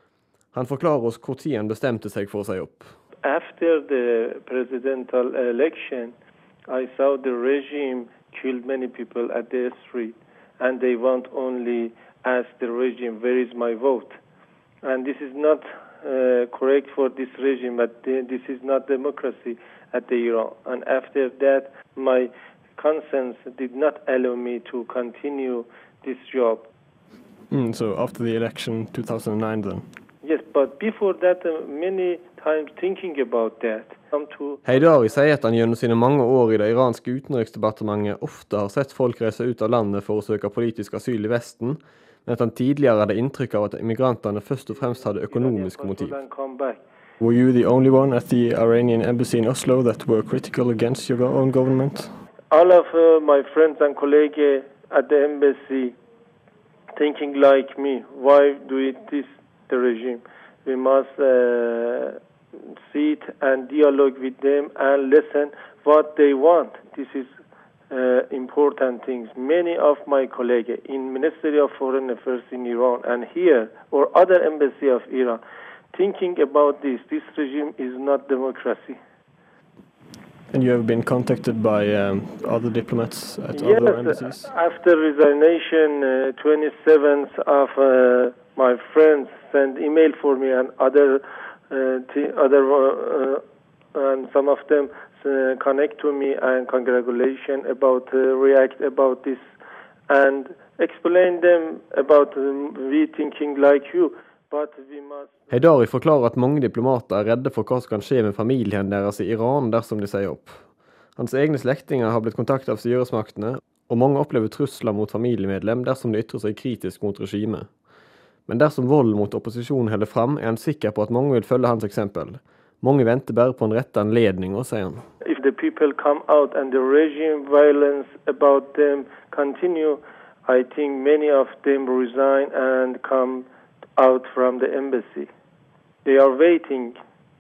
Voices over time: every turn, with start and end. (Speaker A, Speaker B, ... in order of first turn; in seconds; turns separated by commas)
Speaker A: 0.5-3.0, Speaker B: 3.2-6.1, Speaker B: 6.7-14.2, Speaker B: 14.8-26.7, Speaker A: 27.5-29.9, Speaker B: 30.2-34.6, Speaker A: 34.6-46.2, Speaker B: 44.8-46.8, Speaker A: 47.2-52.1, Speaker B: 52.5-56.0, Speaker B: 57.0-62.2, Speaker B: 62.7-67.3, Speaker B: 67.9-75.4, Speaker B: 75.9-79.0, Speaker A: 80.5-84.5, Speaker B: 83.5-93.4, Speaker B: 93.9-99.5, Speaker B: 100.1-105.4, Speaker A: 105.5-117.7, Speaker A: 118.5-125.1, Speaker B: 125.2-135.3, Speaker B: 136.1-137.0